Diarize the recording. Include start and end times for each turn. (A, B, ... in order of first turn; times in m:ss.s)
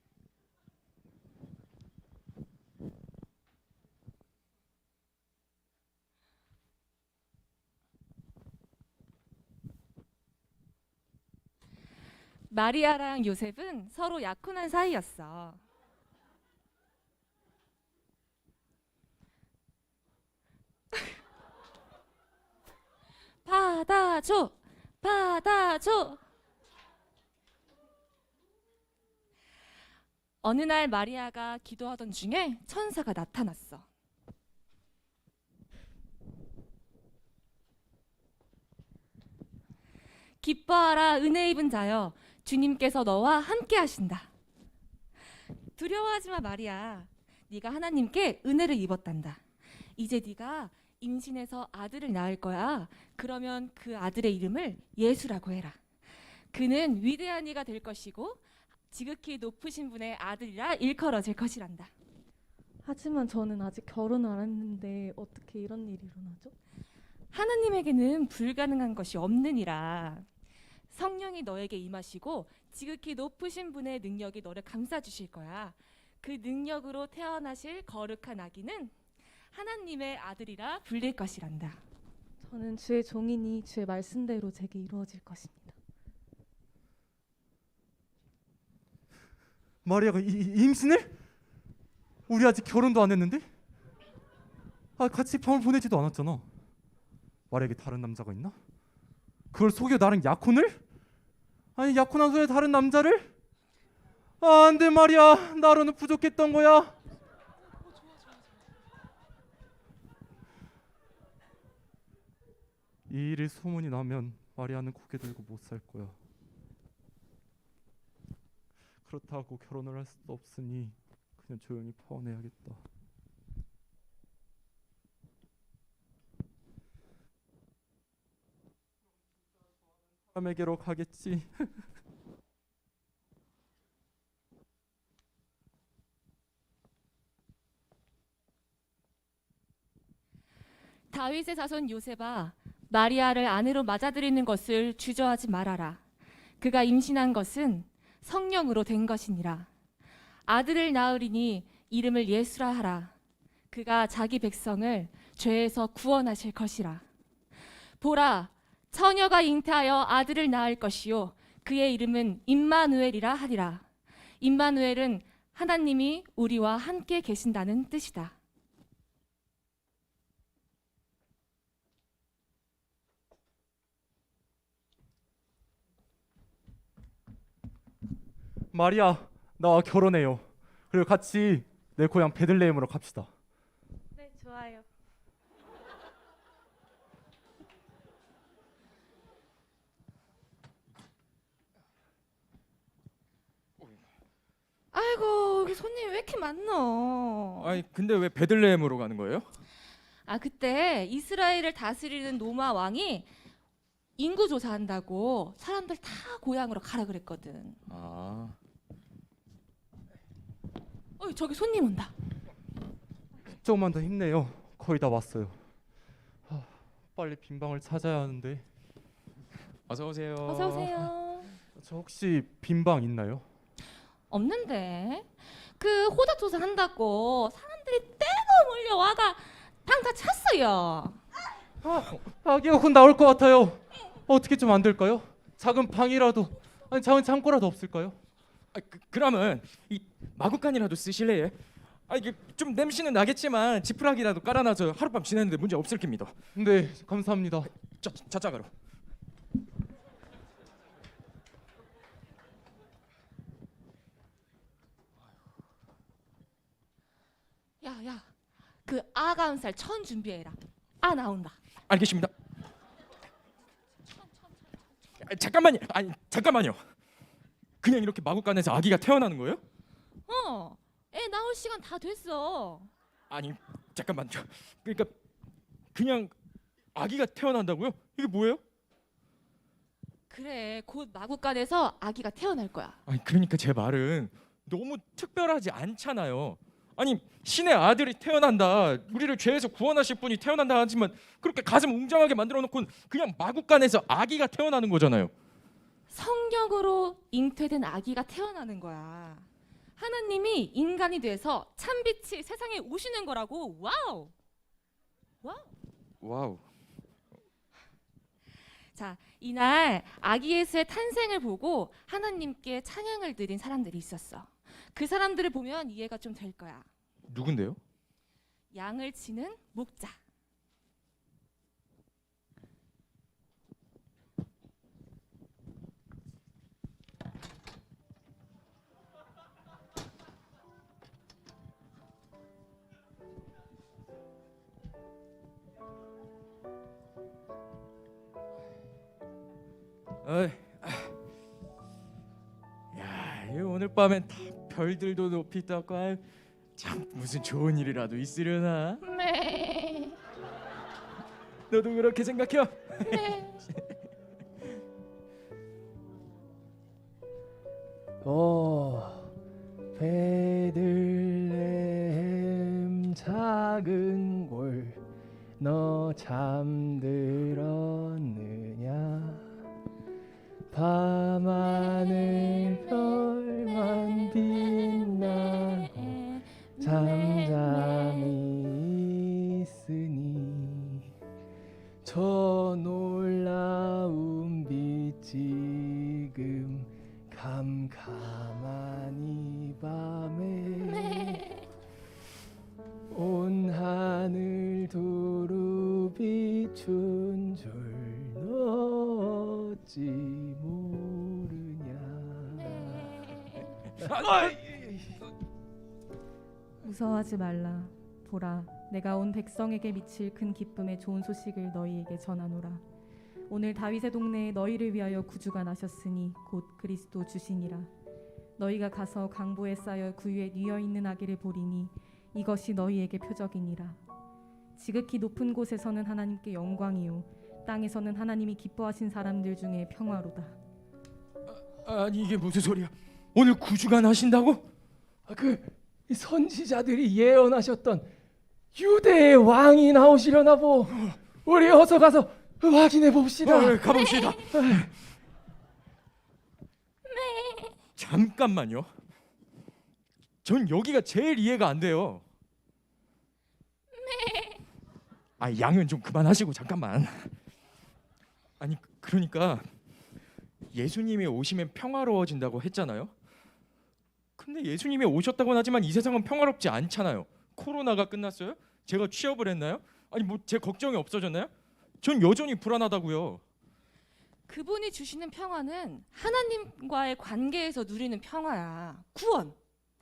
0:12.5-0:15.6 A
0:23.4-0:26.2 A
0:30.4-0:33.9 A
0:40.4-0:44.3 A
0:45.8-0:49.4 A
0:50.0-0:55.8 A
0:56.5-1:01.9 A
1:02.8-1:06.5 B
1:07.3-1:10.3 A
1:10.9-1:19.0 A
1:19.5-1:21.8 A
1:22.4-1:25.8 B
1:29.8-1:31.1 C
1:32.3-1:33.5 C
1:35.0-1:36.5 C
1:37.5-1:38.6 C
1:39.5-1:40.8 C
1:41.8-1:43.3 C
1:44.4-1:47.0 C
1:53.1-1:56.2 C
1:59.0-2:02.8 C
2:10.3-2:11.7 C
2:21.1-2:26.0 A
2:26.6-2:29.7 A
2:30.5-2:33.1 A
2:33.7-2:37.0 A
2:38.0-2:43.9 A
2:44.4-2:48.4 A
2:58.7-3:03.3 C
3:04.3-3:04.8 B
3:14.9-3:17.8 A
3:17.6-3:19.5 D
3:20.2-3:23.3 A
3:24.2-3:27.8 A
3:27.9-3:28.6 D
3:31.2-3:32.1 A
3:33.6-3:35.6 C
3:36.5-3:38.6 C
3:39.9-3:41.1 D
3:40.4-3:41.5 A
3:41.8-3:43.4 C
3:44.3-3:51.2 A
3:51.8-3:58.2 C
3:58.7-4:01.6 D
4:02.1-4:06.4 D
4:06.6-4:07.7 C
4:08.0-4:08.7 D
4:17.8-4:18.3 A
4:18.8-4:21.6 A
4:21.9-4:22.3 D
4:25.2-4:26.8 D
4:27.8-4:29.6 D
4:30.3-4:32.9 A
4:33.3-4:35.1 D
4:36.0-4:36.3 D
4:37.0-4:38.6 D
4:40.3-4:43.0 A
4:43.1-4:55.3 D
4:56.1-4:59.5 A
5:00.0-5:04.3 A
5:05.4-5:05.7 A
5:06.2-5:06.6 D
5:08.9-5:16.9 A
5:17.3-5:17.8 D
5:18.7-5:20.2 A
5:40.2-5:41.1 D
5:42.9-5:46.2 D
5:46.8-5:49.0 D
5:49.0-5:50.2 A
5:51.7-5:53.5 D
5:53.0-5:53.6 A
5:58.2-5:59.3 E
6:00.0-6:05.0 E
6:05.6-6:09.5 E
6:10.7-6:21.1 E
6:16.4-6:18.3 A
6:22.0-6:31.4 E
6:33.1-6:43.2 E
6:42.9-6:43.6 A
6:44.0-6:44.9 E
6:46.8-6:52.8 B
6:53.5-6:57.9 B
6:58.6-7:04.0 B
7:04.8-7:10.6 B
7:11.7-7:14.7 D
7:15.3-7:18.1 E
7:18.8-7:24.9 E
7:23.4-7:24.8 D
7:27.1-7:27.8 A
7:28.0-7:28.9 D
7:30.4-7:32.2 D
7:34.0-7:34.6 A
7:35.4-7:37.3 D
7:38.6-7:39.7 D
7:40.7-7:43.1 D
7:44.4-7:51.5 D
7:52.0-7:53.4 D
7:54.5-7:59.6 A